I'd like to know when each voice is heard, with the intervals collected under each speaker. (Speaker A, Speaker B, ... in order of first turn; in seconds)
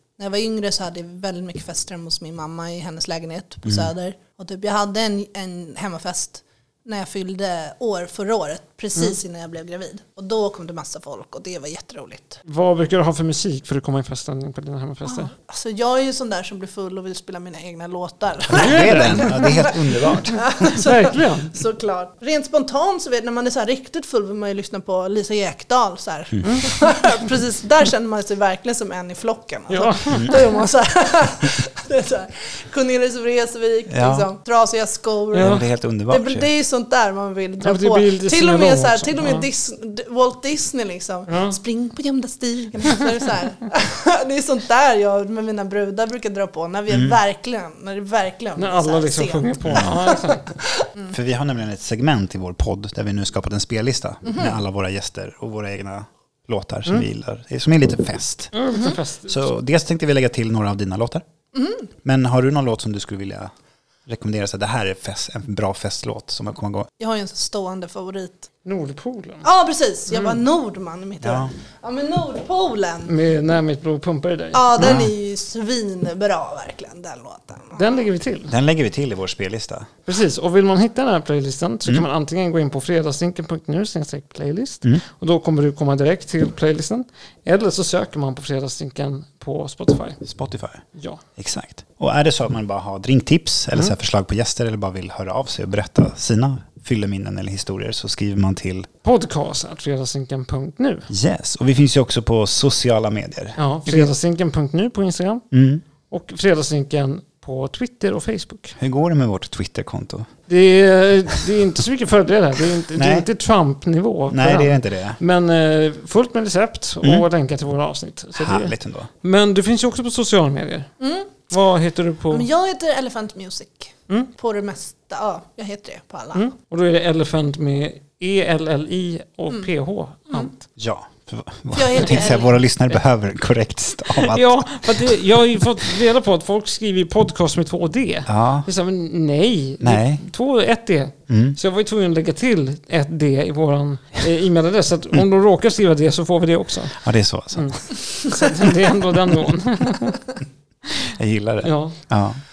Speaker A: 0.2-12.4, 15.1-50.1, 54.2-54.6, 61.5-61.9, 67.0-68.5, 69.4-73.1, 74.5-77.9, 121.0-121.3, 122.3-126.5, 131.7-132.5
Speaker B: 3.6-3.9, 18.5-20.5, 30.1-30.4, 33.9-34.3, 35.3-36.5, 46.9-47.2, 49.6-49.9, 51.1-58.7, 59.2-61.2, 62.0-63.5, 64.0-66.9, 71.2-71.5, 74.8-75.1, 78.5-79.9, 90.2-90.8, 91.4-98.9, 101.1-104.1, 105.5-105.8, 108.8-110.3, 113.0-113.3, 114.3-115.2, 118.4-119.1, 130.8-134.9, 138.3-138.7, 139.8-140.2, 141.3-141.6, 147.0-148.2, 151.1-152.4
Speaker C: 12.5-15.3, 18.5-19.3, 20.7-21.5, 26.4-26.7, 29.7-30.4, 35.3-35.6, 37.6-39.5, 41.3-41.6, 48.6-50.5, 58.5-59.5, 68.6-69.4, 70.1-70.4, 73.1-75.0, 77.8-78.5, 80.0-90.2, 91.0-91.2, 99.0-101.1, 103.6-105.4, 106.1-108.8, 110.5-120.9, 121.5-122.5, 126.3-130.6, 132.0-132.3, 134.1-147.0, 147.5-150.3, 151.6-152.0